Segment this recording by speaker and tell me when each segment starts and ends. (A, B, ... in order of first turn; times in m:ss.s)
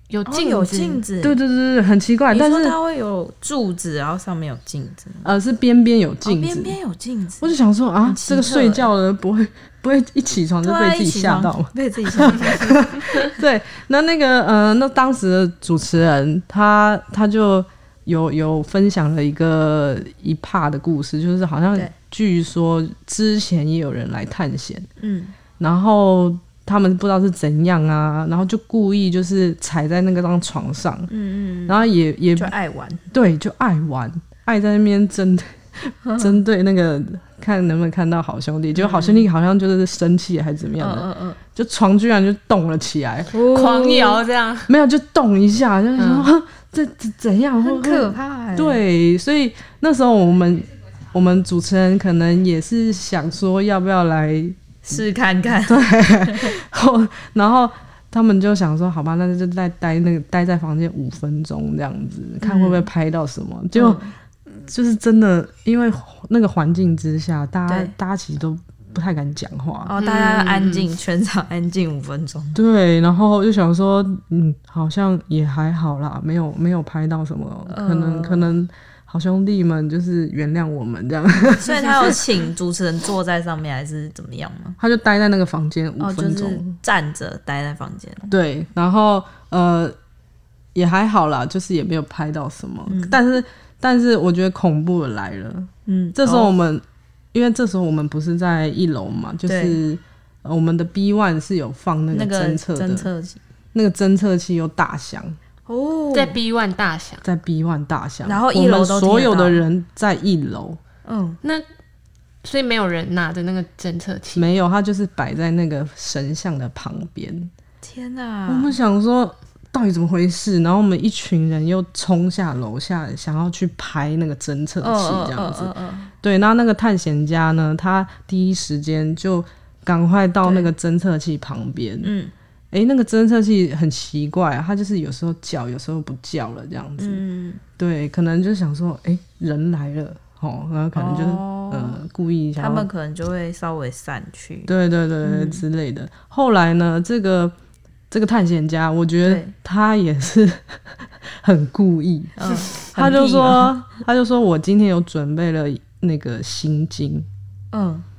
0:00.1-0:01.0 A
0:00.3-0:01.4 B
0:01.2-0:02.8 C
0:02.3-0:05.3 B
0:05.2-0:06.8 C
0:06.2-0:07.5 B
0:07.4-0:24.9 C
0:08.0-0:08.9 B
0:10.6-0:12.9 B
0:25.0-0:25.3 B
0:25.6-0:31.1 C
0:31.1-0:31.8 B
0:31.7-0:32.5 C
0:32.4-0:33.0 B
0:33.1-0:43.4 C
0:36.1-0:36.4 B
0:38.8-0:39.2 B
0:40.8-0:41.4 B
0:43.3-0:44.2 B
0:43.5-0:44.7 A
0:44.7-0:55.0 C
0:46.0-0:46.3 A
0:47.6-0:48.8 B
0:54.9-0:56.5 B
0:55.6-1:09.9 C
1:02.4-1:02.9 B
1:03.7-1:04.1 B
1:07.7-1:07.9 B
1:09.8-1:12.6 B
1:10.0-1:10.9 A
1:12.6-1:22.2 C
1:17.7-1:18.5 B
1:21.5-1:24.8 B
1:24.8-1:26.7 C
1:26.0-1:28.3 B
1:28.3-1:30.0 C
1:30.8-1:43.1 C
1:32.9-1:33.2 B
1:35.9-1:36.5 B
1:39.5-1:39.8 B
1:42.1-1:43.4 B
1:43.7-1:45.4 C
1:45.7-1:46.4 B
1:46.1-1:47.2 A
1:47.2-1:50.8 C
1:48.2-1:49.6 B
1:51.1-1:51.4 B
1:52.4-1:54.5 A
1:54.4-1:57.5 C
1:57.8-1:58.8 B
1:58.5-2:12.1 C
2:04.8-2:06.1 B
2:10.4-2:10.7 B
2:12.0-2:12.3 B
2:12.7-2:17.2 C
2:17.0-2:17.6 B
2:17.8-2:22.9 C
2:21.0-2:22.0 B
2:22.6-2:24.7 B
2:24.7-2:27.5 C
2:25.2-2:25.6 B
2:28.1-2:37.3 C
2:29.2-2:29.5 B
2:32.4-2:33.7 B
2:37.7-2:38.0 B